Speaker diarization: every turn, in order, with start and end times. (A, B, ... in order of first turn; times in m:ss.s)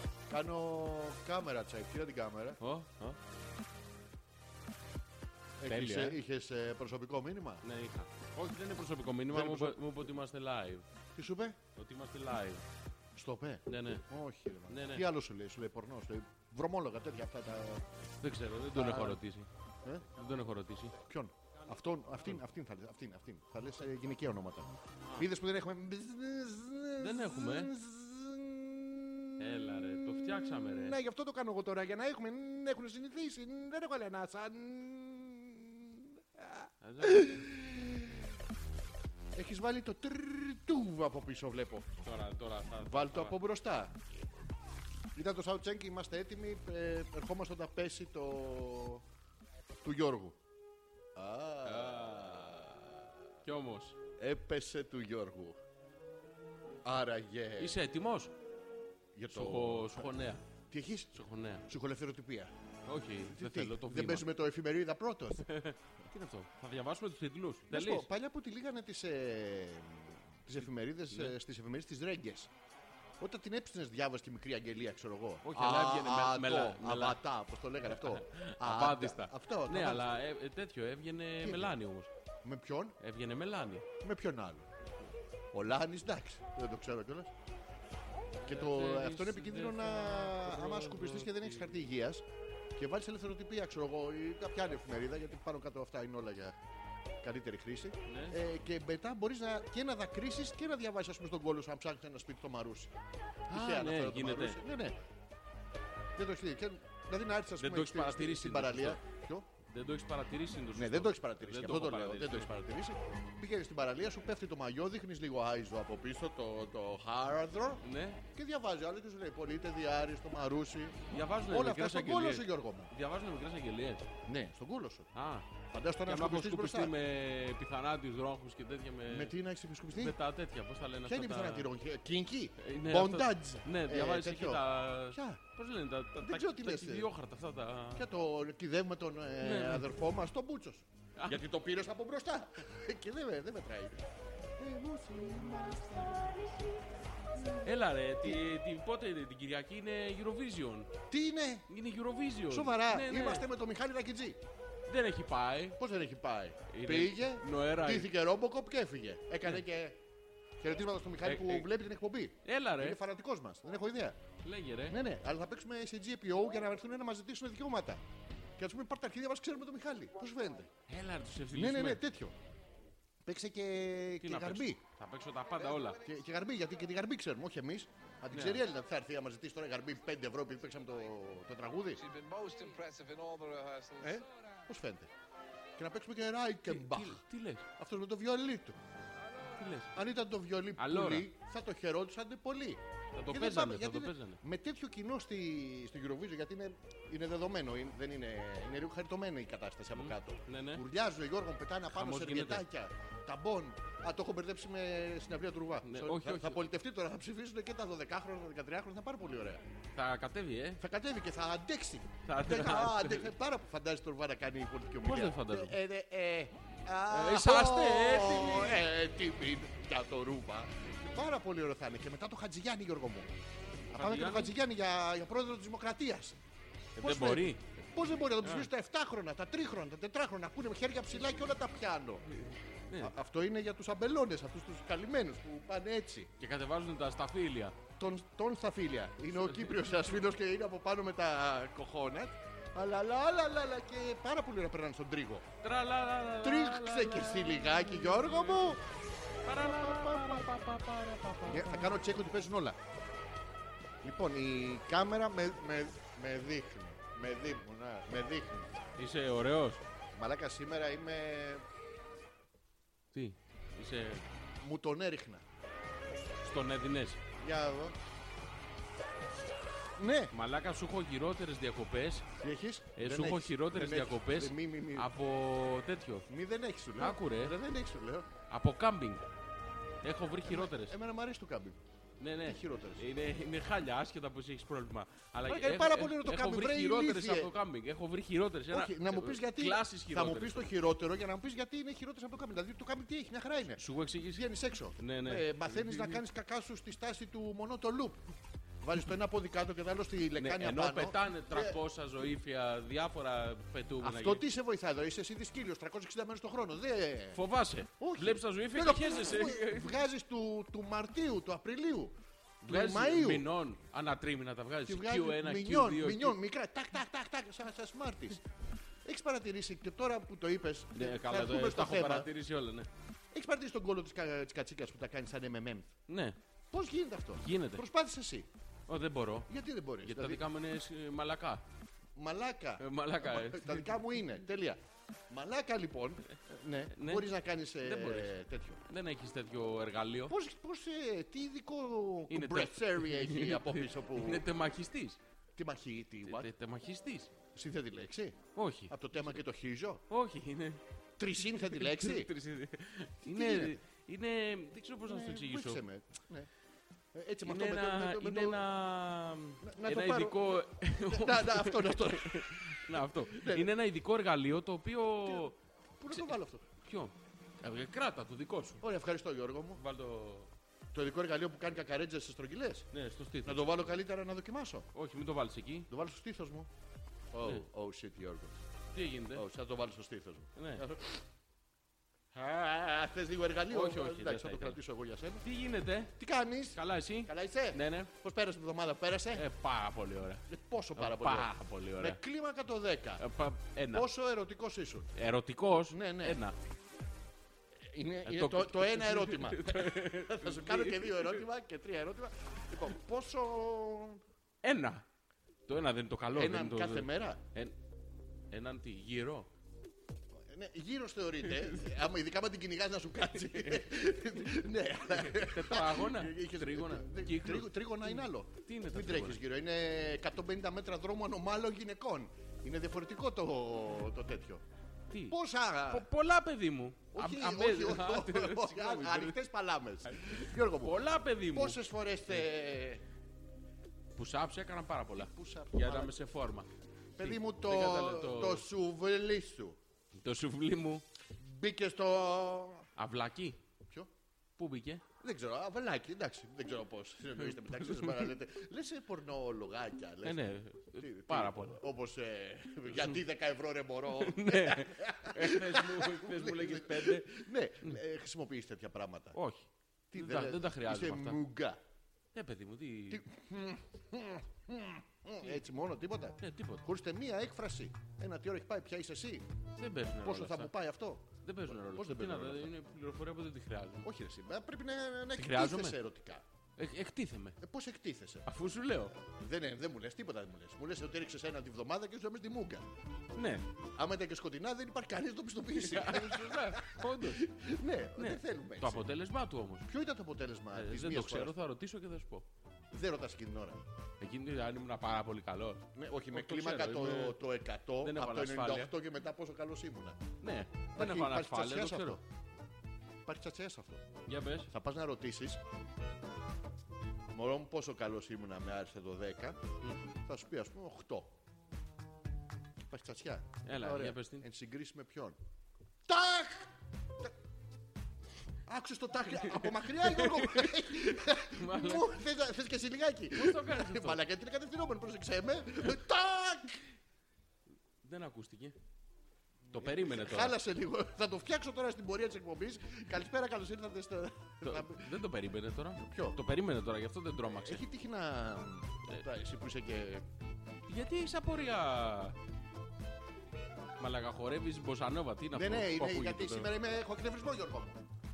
0:00.3-0:02.6 A
0:02.6-0:03.2 B
0:05.6-0:07.6 A
0:05.6-0:06.2 B
0:07.6-0:10.8 B
0:09.3-0:09.9 A
0:11.1-0:11.6 A
0:11.7-0:12.6 B
0:13.1-0:17.9 A
0:13.7-0:14.0 B
0:14.7-0:15.1 B
0:18.2-0:19.5 B
0:18.7-0:19.2 A
0:20.1-0:21.0 B
0:21.0-0:29.4 A
0:27.0-0:27.7 B
0:29.4-0:31.0 B
0:30.2-0:38.4 A
0:36.8-0:37.3 B
0:39.3-0:42.0 A
0:42.0-0:43.4 B
0:42.8-0:44.0 A
0:45.1-0:49.0 A
0:49.8-0:50.4 A
0:51.1-0:53.0 A
0:51.6-0:52.4 B
0:53.4-0:54.0 B
0:54.2-0:55.6 A
0:56.8-0:57.8 A
0:57.6-0:58.3 B
0:59.1-1:02.5 A
0:59.3-1:00.4 B
1:01.1-1:01.6 B
1:02.8-1:04.2 B
1:03.3-1:05.5 A
1:05.4-1:08.1 B
1:07.7-1:12.5 A
1:13.2-1:20.1 A
1:15.4-1:17.2 B
1:17.9-1:22.1 B
1:21.4-1:21.7 A
1:22.4-1:23.0 A
1:23.0-1:23.9 B
1:24.0-1:24.7 A
1:25.5-1:27.3 A
1:28.4-1:31.6 B
1:28.4-1:36.6 A
1:37.2-1:42.9 A
1:38.1-1:38.4 B
1:43.5-1:45.0 A
1:43.5-1:44.6 B
1:46.2-1:49.5 A
1:47.6-1:49.0 B
1:49.7-1:52.5 B
1:50.8-2:02.9 A
1:57.8-1:58.2 B
2:01.1-2:04.1 B
2:04.2-2:07.0 A
2:05.1-2:05.5 B
2:06.0-2:09.3 B
2:09.0-2:10.2 A
2:10.0-2:11.7 B
2:11.0-2:15.4 A
2:12.6-2:18.0 B
2:16.2-2:17.1 A
2:17.9-2:24.0 A
2:19.4-2:19.9 B
2:24.6-2:26.8 A
2:27.3-2:27.7 A
2:27.6-2:30.9 B
2:31.1-2:31.7 A
2:31.7-2:33.5 B
2:32.5-2:34.4 A
2:34.9-2:35.8 B
2:35.8-2:40.0 A
2:36.7-2:38.1 B
2:40.6-2:44.2 A
2:41.2-2:41.7 B
2:42.4-2:43.0 B
2:44.4-2:45.0 B
2:44.9-2:48.0 A
2:48.6-2:50.7 A
2:50.9-2:52.0 B
2:51.5-2:52.4 A
2:53.2-2:54.8 A
2:54.2-2:56.0 B
2:56.0-3:02.0 A
2:58.3-2:58.6 B
3:02.0-3:04.2 C
3:04.0-3:05.1 A
3:05.8-3:07.2 A
3:06.6-3:07.6 B
3:07.7-3:08.8 A
3:09.6-3:09.9 B
3:09.9-3:29.6 A
3:10.8-3:11.3 B
3:13.1-3:14.4 B
3:19.9-3:20.8 B
3:21.9-3:22.6 B
3:25.8-3:26.6 B
3:29.9-3:30.8 B
3:30.8-3:43.3 A
3:32.2-3:33.3 B
3:35.0-3:35.8 B
3:37.1-3:38.8 B
3:43.9-3:46.4 A
3:43.9-3:44.5 B
3:47.0-3:47.6 B
3:47.0-3:52.3 A
3:48.4-3:48.7 B
3:53.0-3:56.3 A
3:56.4-3:57.8 B
3:58.0-4:05.5 A
4:05.6-4:08.7 B
4:06.4-4:08.8 A
4:09.4-4:11.9 B
4:09.5-4:10.5 A
4:11.4-4:12.8 A
4:14.0-4:18.9 A
4:19.0-4:19.8 B
4:20.1-4:21.6 A
4:23.1-4:24.2 B
4:24.6-4:25.4 A
4:26.4-4:27.2 B
4:27.4-4:28.0 A
4:30.0-4:30.3 A
4:30.3-4:32.3 B
4:32.4-4:35.1 A
4:33.0-4:36.3 B
4:36.3-4:38.3 A
4:37.0-4:37.6 B
4:38.5-4:39.2 B
4:40.0-4:41.0 B
4:40.4-4:41.8 A
4:42.2-4:50.7 B
4:42.4-4:43.0 A
4:45.4-4:47.5 A
4:48.7-4:58.3 A
4:53.8-4:54.4 B
4:55.0-4:56.2 B
4:58.8-5:01.8 A
5:00.4-5:04.4 B
5:04.0-5:07.4 A
5:07.3-5:10.0 B
5:08.0-5:13.5 A
5:12.6-5:16.4 B
5:14.8-5:18.4 A
5:19.0-5:22.3 A
5:20.9-5:22.9 B
5:23.3-5:25.9 A
5:26.1-5:26.4 B
5:26.7-5:28.5 A
5:27.4-5:27.8 B
5:28.9-5:29.5 B
5:29.5-5:30.4 A
5:30.0-5:31.6 B
5:32.2-5:38.8 A
5:32.8-5:33.9 B
5:36.9-5:37.3 B
5:37.8-5:38.3 B
5:38.9-5:40.3 B
5:40.3-5:44.5 A
5:42.3-5:45.2 B
5:45.6-5:46.5 A
5:46.2-5:47.3 B
5:47.5-5:50.0 A
5:48.5-5:48.9 B
5:50.1-5:50.8 B
5:51.2-5:52.3 A
5:51.6-5:55.8 B
5:53.2-5:53.8 A
5:55.1-5:56.5 A
5:57.1-5:58.6 A
5:57.4-6:05.6 B
5:59.6-6:03.7 A
6:05.2-6:06.7 A
6:06.1-6:08.8 B
6:08.8-6:09.8 A
6:09.8-6:10.5 B
6:10.9-6:12.9 A
6:12.9-6:13.8 B
6:13.4-6:14.9 A
6:14.9-6:15.9 B
6:15.9-6:16.7 A
6:17.3-6:18.6 A
6:18.9-6:19.4 B
6:19.3-6:21.2 A
6:20.6-6:20.8 B
6:22.3-6:25.4 A
6:23.7-6:24.8 B
6:25.4-6:26.1 B
6:26.2-6:29.4 A
6:26.7-6:28.1 B
6:29.3-6:30.4 B
6:30.5-6:33.2 A
6:31.0-6:32.2 B
6:33.2-6:34.1 B
6:33.9-6:35.1 A
6:35.1-6:36.6 B
6:35.9-6:36.4 A
6:37.7-6:44.2 A
6:38.2-6:41.4 B
6:44.6-6:45.0 B
6:45.7-6:47.7 B
6:46.3-6:47.4 A
6:48.5-6:49.5 B
6:50.5-7:04.6 A
6:53.4-6:53.9 B
6:55.1-6:59.4 B
7:05.1-7:05.4 B
7:05.3-7:06.1 A
7:05.9-7:09.4 B
7:07.1-7:13.0 A
7:10.0-7:11.8 B
7:14.1-7:18.6 B
7:15.1-7:16.2 A
7:17.1-7:19.8 A
7:20.2-7:21.0 B
7:21.4-7:22.9 A
7:23.0-7:23.6 B
7:24.6-7:25.0 B
7:25.2-7:30.4 A
7:27.4-7:28.3 B
7:30.2-7:31.8 B
7:31.0-7:39.4 A
7:32.9-7:33.2 B
7:34.2-7:37.9 B
7:39.3-7:41.4 B
7:40.1-7:41.8 A
7:42.3-7:43.2 B
7:43.1-7:49.5 A
7:46.4-7:46.8 B
7:49.8-7:50.7 B
7:50.2-7:52.7 A
7:51.4-7:54.1 B
7:54.0-7:56.4 A
7:55.4-7:56.0 B
7:56.8-7:57.6 B
7:57.6-7:58.5 A
7:58.4-7:59.1 B
7:59.1-8:02.8 A
8:03.3-8:03.7 B
8:03.9-8:09.1 A
8:05.8-8:07.5 B
8:08.2-8:09.9 B
8:09.8-8:11.5 A
8:10.7-8:12.5 B
8:12.9-8:13.9 A
8:14.2-8:17.4 B
8:15.9-8:20.2 A
8:18.0-8:18.9 B
8:20.4-8:22.2 B
8:20.9-8:22.2 A
8:23.2-8:24.0 A
8:24.2-8:24.7 B
8:24.7-8:25.6 A
8:27.3-8:29.6 A
8:30.2-8:31.4 A
8:32.8-8:35.4 A
8:33.6-8:34.5 B
8:36.1-8:37.3 A
8:38.6-8:46.8 A
8:39.5-8:42.2 B
8:43.3-8:44.2 B
8:48.0-8:48.8 B
8:49.7-8:50.6 B
8:49.7-8:55.2 A
8:54.6-8:57.8 B
8:56.0-8:56.4 A
8:57.4-9:00.2 A
9:00.9-9:02.4 B
9:04.0-9:06.7 B
9:05.5-9:08.0 A